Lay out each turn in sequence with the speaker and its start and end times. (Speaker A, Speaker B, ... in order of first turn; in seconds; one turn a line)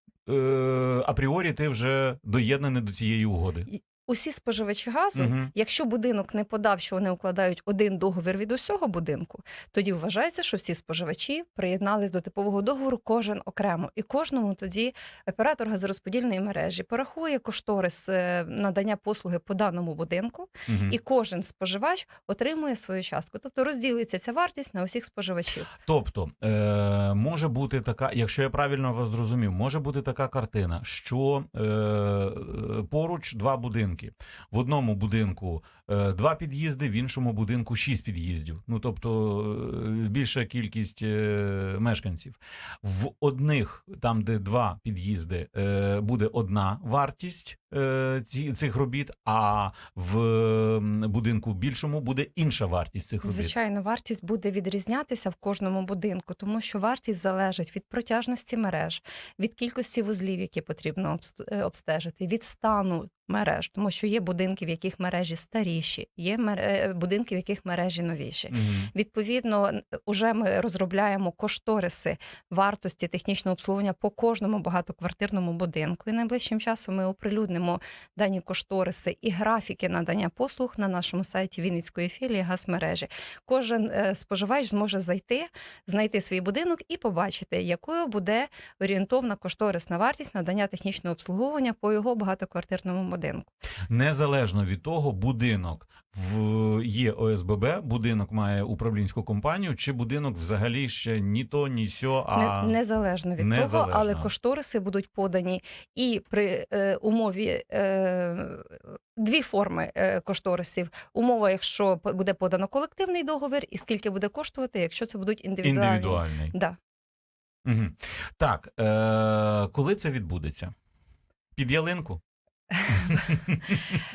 Speaker A: 0.3-3.7
Speaker B: 3.7-25.7
Speaker A: 5.2-5.5
Speaker A: 20.7-21.0
Speaker A: 25.9-53.5
Speaker B: 53.2-93.5
Speaker A: 68.5-68.9
Speaker A: 93.9-102.8
Speaker B: 102.3-116.8
Speaker A: 103.4-104.3
Speaker A: 115.6-116.5
Speaker A: 117.7-120.7
Speaker A: 121.5-122.2
Speaker B: 122.8-123.2
Speaker A: 122.9-123.8